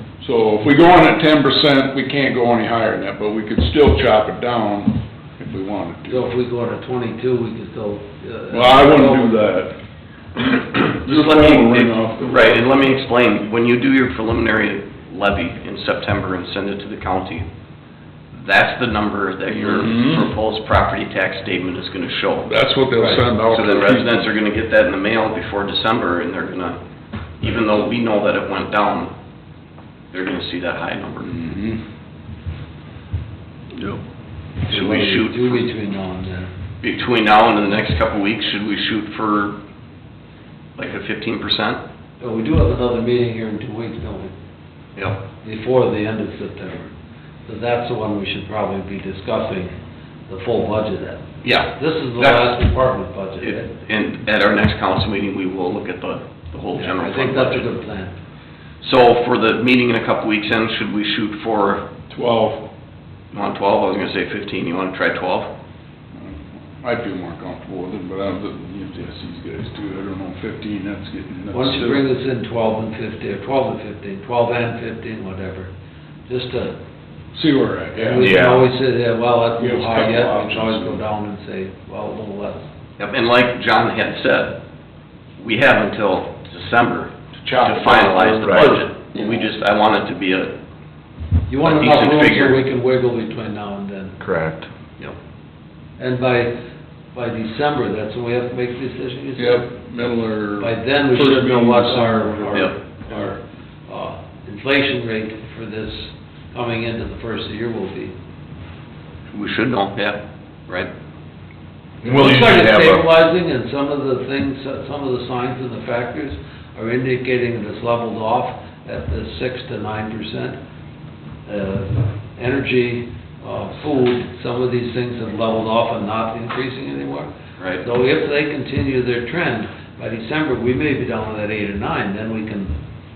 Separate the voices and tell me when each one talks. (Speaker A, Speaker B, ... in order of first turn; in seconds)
Speaker A: 0.2-6.2, 8.5-9.7, 10.4-12.6, 19.7-20.3, 22.4-24.3, 31.3-31.8, 62.1-62.7, 66.1-72.0, 77.3-78.3, 79.6-81.0, 87.4-89.4, 99.4-102.7
Speaker B: 6.1-9.4, 23.0-23.2, 34.6-36.5, 42.2-44.3, 45.4-46.9, 47.5-49.7, 50.3-53.7, 56.7-58.1, 71.5-75.7, 76.3-76.7, 78.0-82.7, 91.5-94.2, 96.0-96.6, 97.1-108.1, 112.0-120.6, 121.4-132.8
Speaker C: 10.8-17.5, 18.3-22.5, 23.5-26.8, 27.4-29.1, 30.1-31.4, 34.7-35.6, 36.8-39.6, 40.8-41.8, 45.0-45.2, 51.4-52.6, 53.4-57.7, 58.8-61.9, 63.3-65.5, 83.0-84.6, 85.4-90.5, 91.6-92.6, 109.3-110.9, 127.6-127.8
Speaker D: 78.2-78.7, 88.4-88.8, 94.2-94.7, 112.0-113.0